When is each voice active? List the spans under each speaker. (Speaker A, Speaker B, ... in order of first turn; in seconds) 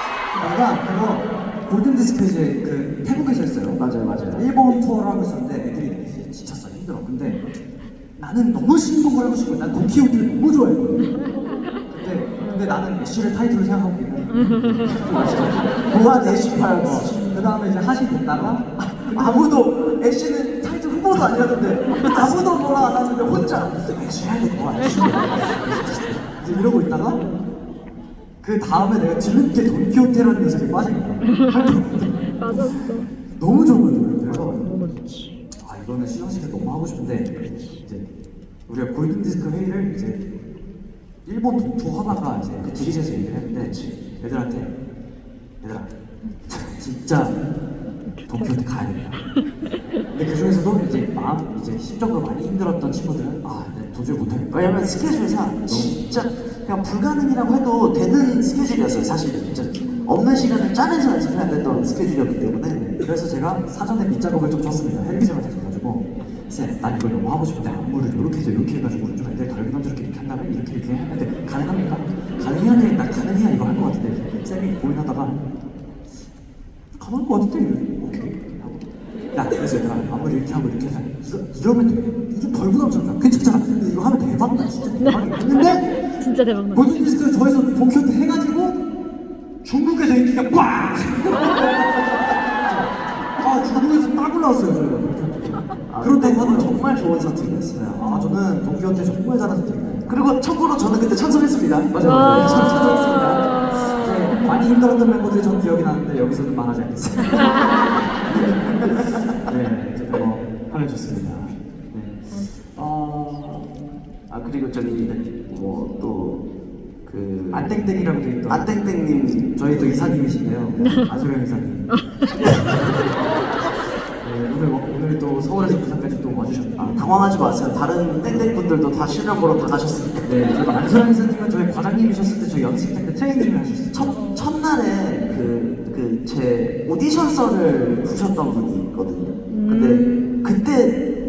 Speaker A: 0.3-3.8, 4.3-7.4, 8.2-11.1, 11.9-19.3, 22.0-22.4, 23.6-27.2, 28.4-32.8, 33.4-34.6, 35.6-37.3, 38.7-40.2, 41.2-44.7, 45.6-45.9, 46.5-47.4, 48.3-49.2, 50.1-54.8, 55.6-56.0, 63.0-75.4, 76.9-85.9, 86.7-88.8, 89.6-96.8, 97.9-100.1, 101.9-113.2, 117.5-118.8, 119.5-121.9, 122.5-122.9, 124.2-127.4, 128.2-128.6, 130.2-134.1
Speaker B: 3.8-4.4, 14.8-17.1, 19.0-23.8, 34.3-34.7, 42.6-43.0, 43.5-44.0, 54.5-63.0, 95.9-98.0, 100.1-102.8, 108.3-109.5, 112.8-113.7, 114.3-116.4, 117.0-117.7, 118.5-120.0, 126.8-130.3, 133.9-141.0
Speaker C: 14.4-14.7, 32.4-33.1, 34.6-35.3, 86.2-86.9, 134.2-134.5, 139.5-140.4